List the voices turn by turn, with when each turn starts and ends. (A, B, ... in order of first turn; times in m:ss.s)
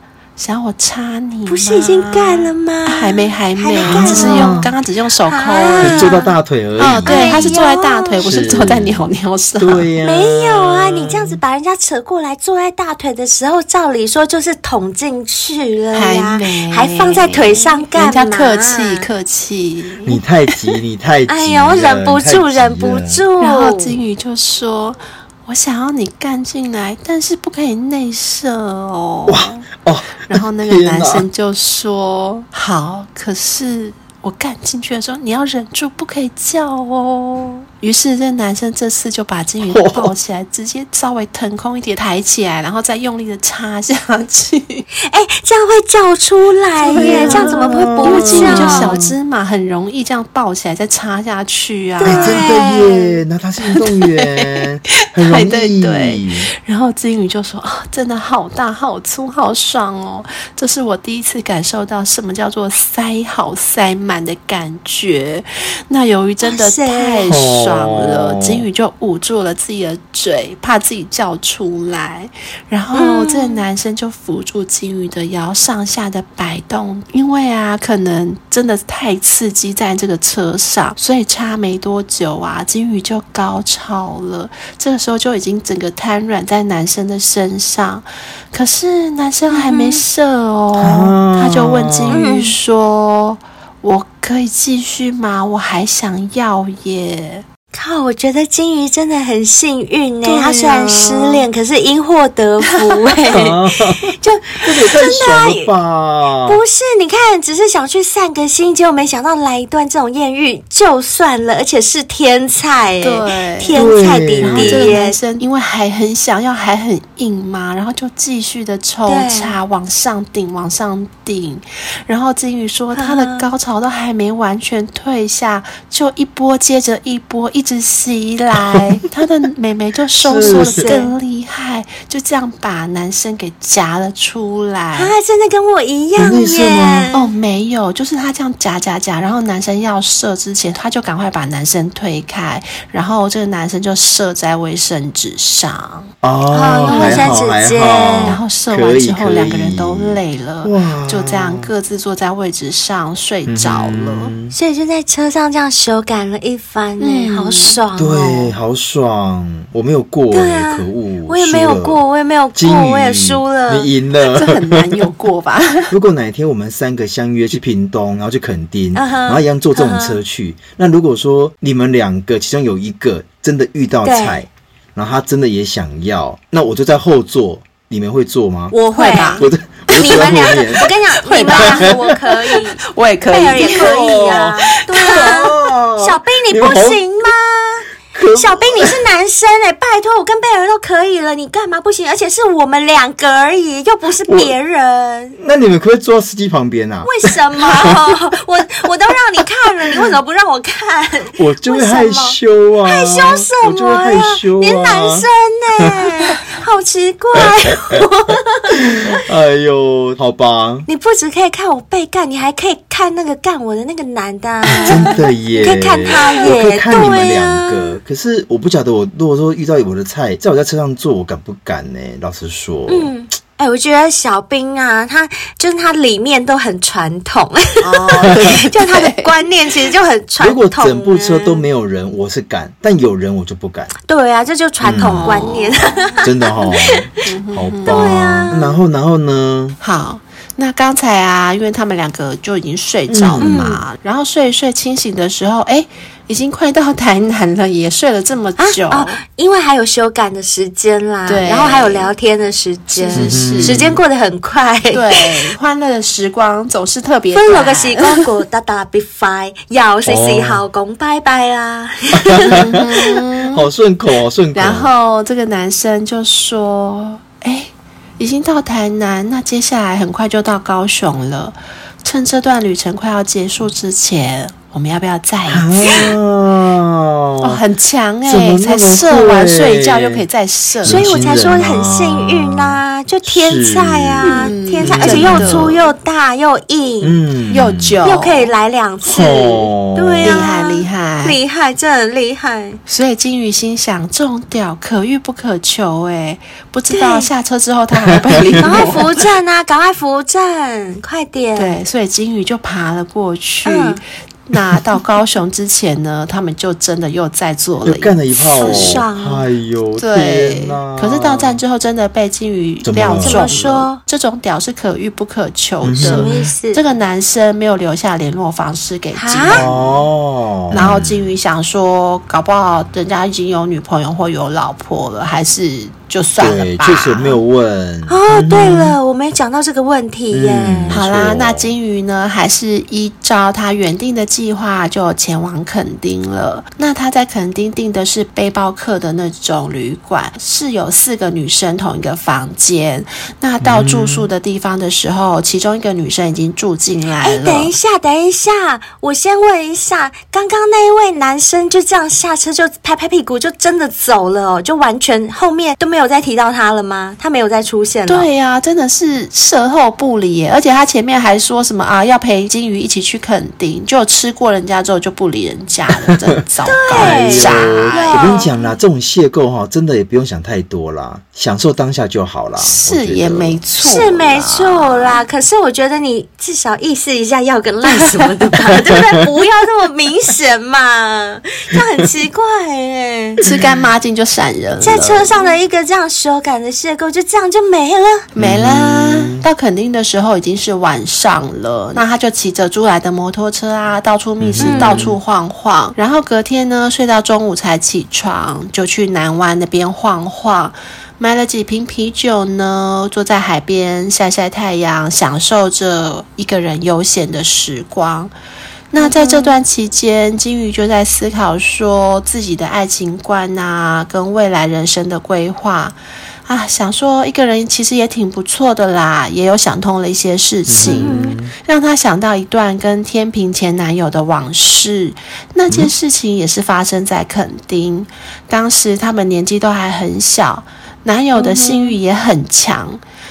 0:00.4-0:06.2 A
0:01.5-0:04.6 B
0:03.9-0:04.7 C
0:05.3-0:06.3 B
0:05.8-0:07.6 C
0:06.8-0:09.9 A
0:07.0-0:08.4 B
0:08.2-0:09.0 C
0:09.6-0:11.4 C
0:10.0-0:19.1 B
0:15.9-0:20.2 A
0:20.0-0:23.2 C
0:21.3-0:24.0 B
0:23.4-0:29.7 A
0:29.3-0:31.3 C
0:30.2-0:44.8 A
0:39.6-0:40.1 C
0:45.0-0:49.0 B
0:46.8-0:52.6 A
0:46.9-0:49.1 C
0:52.0-0:53.2 B
0:52.0-0:56.5 C
0:53.6-0:54.6 A
0:55.2-1:37.4 A
1:06.4-1:07.2 B
1:07.2-1:08.7 C
1:12.9-1:13.6 B
1:29.5-1:30.0 B
1:30.8-1:32.2 C
1:32.1-1:32.6 B
1:37.7-1:45.7 B
1:40.2-1:41.4 A
1:42.7-1:43.4 A
1:43.3-1:46.6 C
1:46.5-1:55.2 B
1:53.0-1:53.8 A
1:53.7-1:55.0 C
1:54.4-2:15.1 A
1:59.1-1:59.6 B
2:03.0-2:03.4 B
2:10.2-2:10.9 C
2:10.4-2:11.1 B
2:15.0-2:17.3 B
2:16.2-2:17.1 C
2:17.1-2:26.1 A
2:26.2-2:31.7 C
2:26.5-2:28.4 B
2:26.9-2:27.4 A
2:28.2-2:34.3 A
2:33.5-2:34.5 C
2:34.5-2:38.5 B
2:37.0-2:37.8 A
2:38.0-2:42.0 C
2:40.3-2:43.9 B
2:42.6-2:45.1 C
2:44.3-2:45.9 A
2:45.9-2:58.8 C
2:48.9-2:50.2 B
2:54.0-2:54.4 B
2:58.7-3:15.4 B
2:58.8-3:00.6 A
2:59.4-3:00.9 C
3:01.2-3:04.0 A
3:01.5-3:02.0 C
3:03.6-3:07.0 C
3:05.0-3:05.4 A
3:08.1-3:09.0 C
3:14.3-3:14.5 C
3:15.4-3:17.9 C
3:17.0-3:29.0 B
3:21.4-3:25.3 C
3:27.4-3:28.0 C
3:28.9-3:30.9 C
3:30.9-3:38.0 B
3:34.8-3:43.1 C
3:42.9-3:51.6 B
3:47.8-3:49.3 A
3:50.4-3:53.9 C
3:54.1-3:57.2 B
3:54.8-3:59.8 C
3:57.3-3:58.1 A
3:57.9-3:58.8 B
3:59.8-4:09.2 A
4:03.1-4:03.6 C
4:03.4-4:03.8 B
4:08.6-4:15.5 B
4:11.3-4:12.1 A
4:13.0-4:13.9 A
4:13.2-4:14.0 C
4:14.9-4:18.2 A
4:17.4-4:23.0 B
4:20.1-4:20.6 C
4:22.1-4:22.9 C
4:22.4-4:23.6 A
4:23.5-4:24.9 C
4:24.5-4:36.1 A
4:35.5-4:37.6 C
4:37.4-4:41.1 A
4:38.3-4:40.2 C
4:40.8-4:45.8 C
4:40.8-4:47.2 B
4:44.2-4:45.8 A
4:47.0-4:48.0 C
4:47.5-4:48.5 A
4:48.0-4:52.8 B
4:49.0-4:50.4 C
4:50.2-4:51.4 A
4:52.9-4:59.2 A
4:56.9-4:57.3 B
4:58.3-4:58.8 C
4:58.6-5:01.8 B
5:01.6-5:09.0 A
5:03.6-5:04.0 B
5:07.8-5:11.6 C
5:08.6-5:09.5 B
5:10.0-5:20.0 A
5:12.8-5:13.5 C
5:13.2-5:14.0 B
5:15.8-5:16.3 C
5:16.0-5:16.8 B
5:19.1-5:19.6 B
5:19.5-5:21.3 C
5:20.7-5:27.4 A
5:26.4-5:29.0 C
5:28.1-5:31.0 B
5:30.3-5:31.7 C
5:30.9-5:47.7 A
5:43.6-5:44.3 C
5:47.2-5:58.3 B
5:58.1-6:08.5 A
6:06.6-6:08.5 B
6:06.9-6:13.6 C
6:12.6-6:15.2 A
6:13.8-6:23.4 B
6:23.4-6:25.5 A
6:23.4-6:23.8 C
6:24.8-6:28.3 B
6:28.4-6:29.5 C
6:28.4-6:48.3 A
6:34.4-6:35.2 C
6:34.6-6:35.1 B
6:48.9-6:56.0 A
6:49.0-6:49.6 B
6:56.5-7:13.0 A
7:00.7-7:01.5 C
7:00.8-7:01.4 B
7:11.4-7:12.0 B